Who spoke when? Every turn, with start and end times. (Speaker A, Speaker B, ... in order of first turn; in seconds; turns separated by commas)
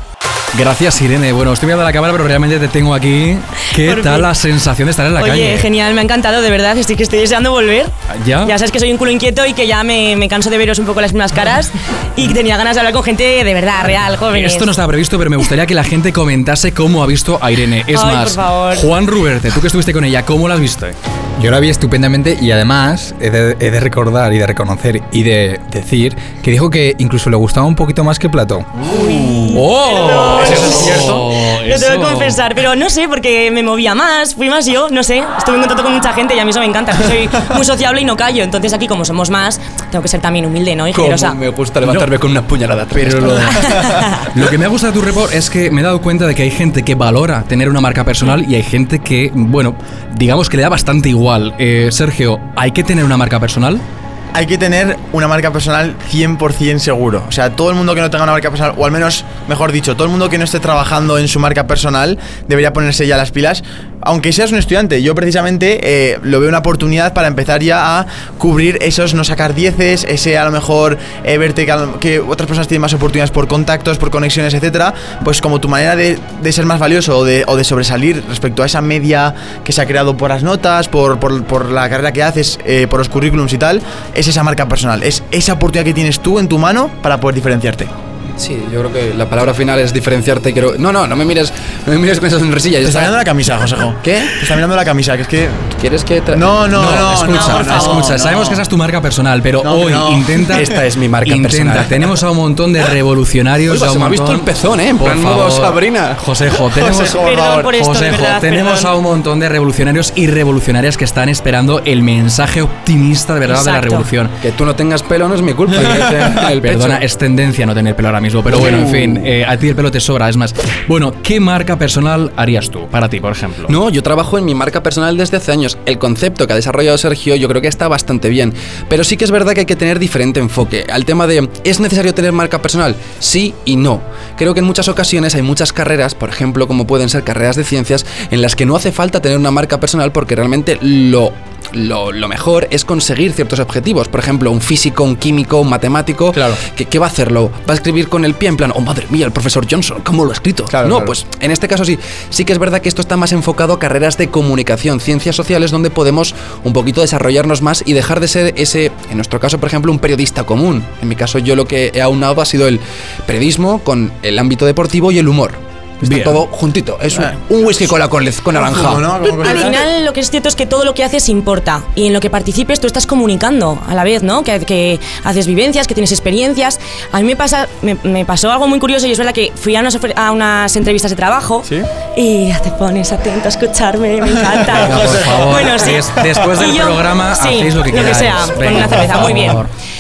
Speaker A: 0.5-5.7, Speaker B: 3.8-4.3, Speaker B: 5.2-7.9, Speaker A: 8.1-8.5, Speaker B: 8.4-14.7, Speaker A: 14.3-20.9, Speaker B: 17.9-18.8, Speaker C: 21.4-28.7, Speaker B: 28.9-41.4, Speaker D: 29.0-29.5, Speaker A: 29.5-32.4, Speaker D: 30.4-31.0, Speaker E: 40.9-44.2, Speaker A: 41.8-42.1, Speaker A: 42.9-43.7, Speaker B: 43.6-44.2, Speaker A: 44.3-53.8, Speaker D: 54.3-87.9, Speaker E: 88.4-93.1, Speaker D: 92.8-95.7, Speaker E: 94.0-94.5, Speaker E: 95.8-96.5, Speaker D: 96.3-98.6, Speaker A: 96.7-100.7, Speaker B: 97.3-98.0, Speaker D: 99.6-100.5, Speaker E: 100.5-102.1, Speaker A: 101.2-114.3, Speaker E: 103.7-106.2, Speaker D: 106.7-107.7, Speaker B: 107.2-108.9, Speaker B: 113.4-114.0, Speaker E: 114.4-117.0, Speaker A: 116.4-123.7, Speaker E: 118.5-119.2, Speaker E: 123.7-169.6, Speaker D: 150.7-151.2, Speaker A: 166.0-166.4, Speaker D: 167.1-167.4, Speaker D: 168.5-169.8, Speaker B: 169.4-189.6, Speaker D: 184.5-186.0, Speaker A: 184.7-189.7, Speaker D: 188.7-189.3